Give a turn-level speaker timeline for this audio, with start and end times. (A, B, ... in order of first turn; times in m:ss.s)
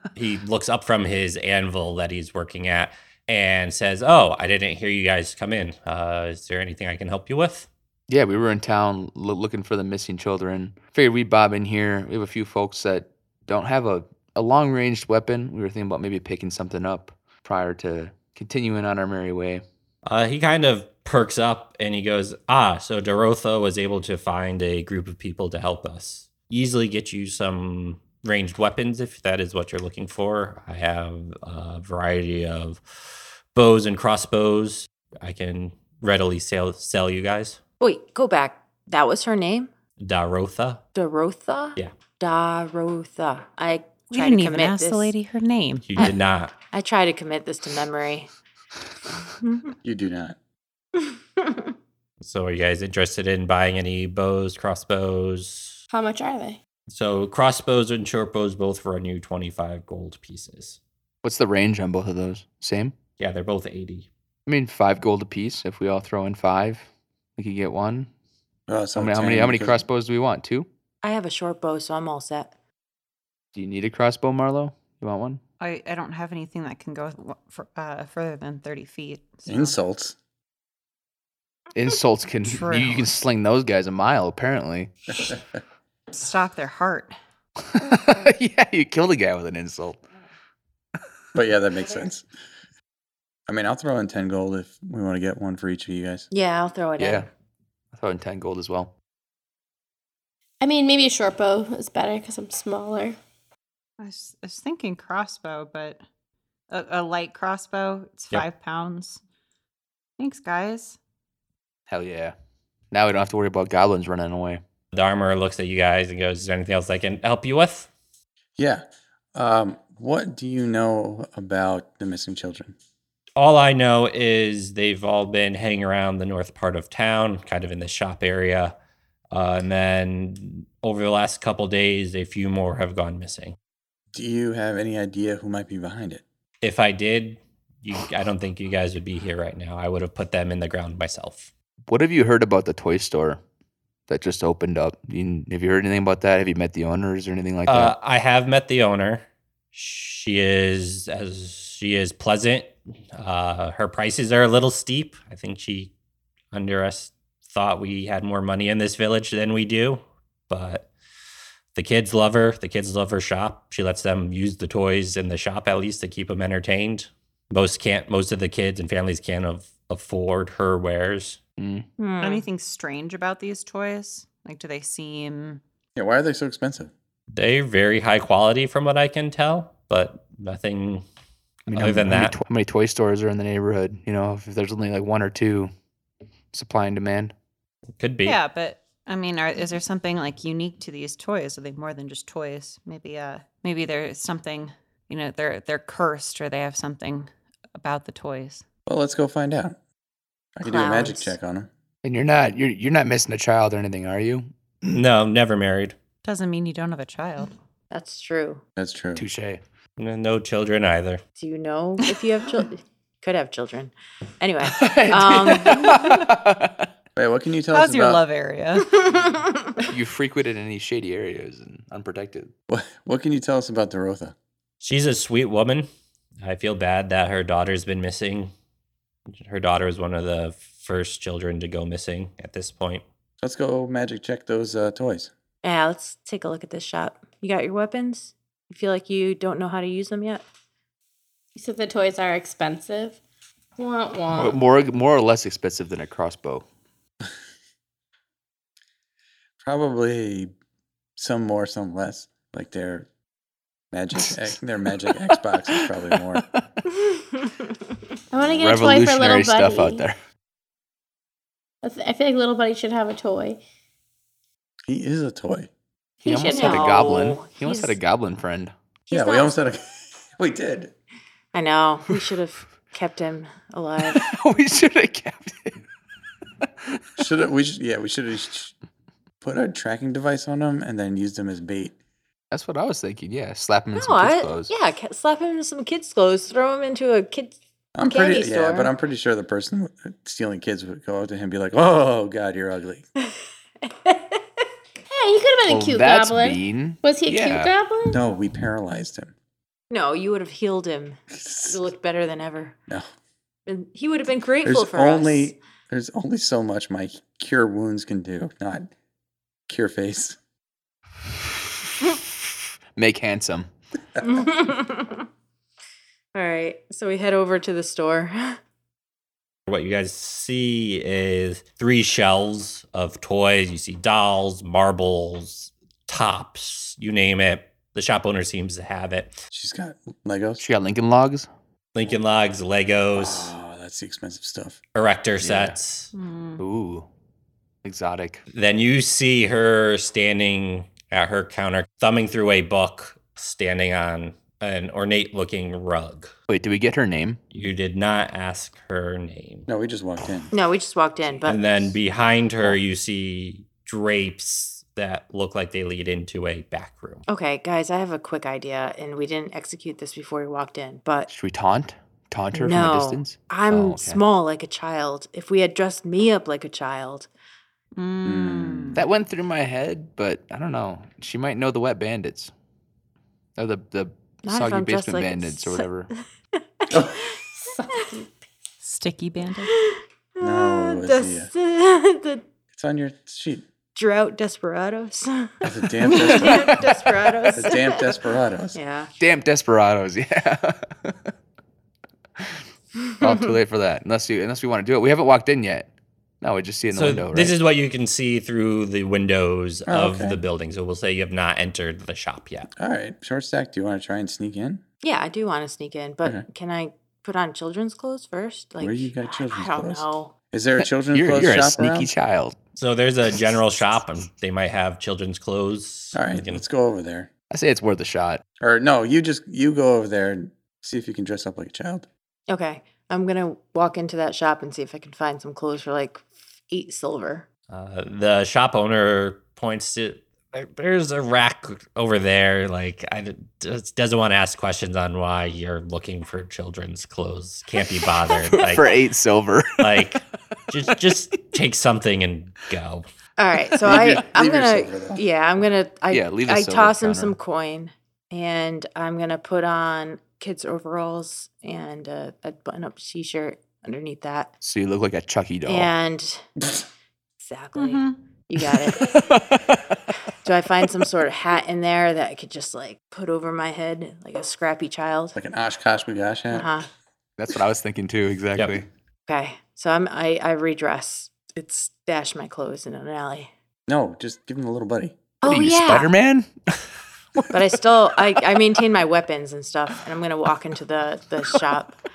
0:00.2-0:07.7 A
0:08.1-0:19.6 B
0:20.1-0:37.6 A
0:37.8-0:39.7 C
0:40.0-0:40.8 A
0:40.9-0:45.1 C
0:44.1-0:46.1 D
0:45.9-0:46.5 A
0:46.7-0:48.3 C
0:49.8-0:50.4 E
0:52.2-0:55.8 A
0:55.9-0:56.6 F
0:56.9-1:00.8 A
1:01.2-1:03.0 B
1:03.2-1:04.1 A
1:04.5-1:06.9 B
1:07.4-1:08.1 B
1:08.7-1:09.8 E
1:09.0-1:10.7 B
1:11.0-1:12.5 C
1:13.6-1:15.4 B
1:15.6-1:19.8 D
1:19.5-1:20.2 E
1:21.7-1:25.0 B
1:22.4-1:23.1 D
1:26.1-1:27.1 D
1:27.6-1:30.0 B
1:31.4-1:32.2 E
1:33.5-1:36.3 E
1:36.3-1:37.3 C
1:37.0-1:37.3 B
1:37.9-1:38.9 B
1:40.6-1:43.2 F
1:44.0-1:46.0 D
1:46.7-1:49.2 D
1:50.2-1:51.0 D
1:51.9-1:52.3 B
1:52.9-1:54.6 B
1:54.9-1:57.9 A
1:58.6-1:58.8 E
1:59.4-2:02.8 E
2:03.4-2:08.7 A
2:09.3-2:13.6 A
2:14.1-2:16.2 E
2:16.6-2:21.5 A
2:21.9-2:23.4 B
2:24.1-2:27.9 B
2:27.7-2:35.9 A
2:36.5-2:40.9 A
2:41.8-2:51.4 A
2:51.6-2:51.9 B
2:52.0-2:52.5 C
2:52.2-2:55.6 D
2:56.0-2:56.9 E
2:57.3-3:01.0 A
3:01.7-3:05.7 B
3:01.7-3:02.4 A
3:06.5-3:07.3 B
3:08.0-3:08.4 A
3:08.2-3:18.6 D
3:18.9-3:19.8 E
3:20.6-3:21.7 E
3:20.6-3:21.4 C
3:22.0-3:25.0 B
3:24.9-3:26.0 A
3:26.2-3:27.5 D
3:27.9-3:28.6 C
3:28.8-3:29.2 E
3:29.2-3:29.6 B
3:30.0-3:31.2 A
3:31.4-3:36.0 C
3:34.6-3:36.9 B
3:36.0-3:36.2 D
3:37.2-3:38.2 E
3:37.7-3:39.2 D
3:39.1-3:39.4 C
3:39.9-3:42.5 B
3:42.7-3:44.4 E
3:44.8-3:45.9 A
3:46.4-3:48.5 A
3:49.3-3:53.0 A
3:53.4-3:55.3 E
3:55.6-4:00.4 C
4:01.6-4:03.2 F
4:03.8-4:04.6 F
4:04.3-4:06.6 B
4:09.6-4:10.5 E
4:11.2-4:13.1 E
4:13.9-4:16.4 E
4:14.2-4:14.5 B
4:15.5-4:16.6 B
4:17.0-4:17.5 C
4:18.3-4:20.0 F
4:18.4-4:20.2 B
4:21.8-4:23.6 F
4:24.9-4:25.7 E
4:26.2-4:28.7 B
4:26.3-4:27.4 F
4:26.3-4:28.0 C
4:29.1-4:29.6 C
4:29.1-4:30.9 E
4:31.5-4:34.2 C
4:34.1-4:35.8 B
4:36.9-4:37.2 B
4:37.2-4:38.7 E
4:39.4-4:42.0 E
4:42.5-4:44.7 B
4:44.0-4:48.9 C
4:48.0-4:53.1 E
4:53.2-4:54.4 C
4:55.1-4:58.2 F
4:55.7-4:57.7 B
4:58.1-4:59.3 E
4:59.9-5:02.8 C
5:01.3-5:01.8 E
5:03.7-5:05.6 C
5:04.6-5:08.9 E
5:09.7-5:10.4 E
5:13.0-5:13.7 B
5:14.2-5:15.3 C
5:16.3-5:18.6 C
5:19.7-5:29.4 A
5:29.5-5:30.6 E
5:30.6-5:31.5 B
5:31.9-5:33.5 A
5:33.2-5:34.8 E
5:35.0-5:36.1 A
5:35.4-5:35.8 B
5:36.1-5:36.6 D
5:36.6-5:37.1 B
5:37.8-5:38.4 B
5:38.5-5:46.3 A
5:46.5-5:47.4 B
5:47.5-5:49.7 A
5:49.7-5:50.5 E
5:50.5-5:51.9 C
5:51.4-5:57.2 A
5:57.3-6:01.3 C
6:01.3-6:04.2 B
6:02.5-6:07.3 C
6:08.0-6:09.0 D
6:08.2-6:09.0 E
6:09.0-6:12.5 B
6:13.6-6:16.1 B
6:14.4-6:15.9 C
6:16.8-6:17.4 C
6:17.6-6:18.3 F
6:18.8-6:19.7 D
6:19.7-6:22.4 C
6:20.4-6:21.5 E
6:22.7-6:23.7 E
6:24.0-6:28.2 C
6:25.6-6:26.9 E
6:26.3-6:26.8 B
6:27.5-6:28.8 E
6:28.7-6:29.1 C
6:29.2-6:31.3 B
6:33.2-6:37.5 B
6:36.9-6:42.7 A
6:39.9-6:40.4 E
6:42.8-6:44.8 E
6:45.0-6:50.3 C
6:48.8-6:52.1 E
6:51.1-6:52.6 B
6:52.8-6:56.6 A
6:56.1-6:57.3 E
6:57.5-6:58.4 B
6:58.6-7:02.1 E
7:02.5-7:07.5 C
7:07.7-7:19.0 A
7:18.3-7:20.1 B
7:19.8-7:23.0 A
7:23.4-7:34.5 C
7:23.8-7:25.2 E
7:26.1-7:27.4 B
7:34.6-7:35.9 B
7:35.7-7:36.5 C
7:37.4-7:39.2 C
7:37.8-7:38.2 D
7:38.8-7:40.0 B
7:40.4-7:45.4 C
7:45.4-7:46.7 E
7:46.5-7:46.9 C
7:47.4-7:48.9 B
7:49.3-7:53.5 C
7:53.9-7:55.2 E
7:55.4-7:56.1 C
7:55.5-7:57.6 B
7:57.5-8:02.0 C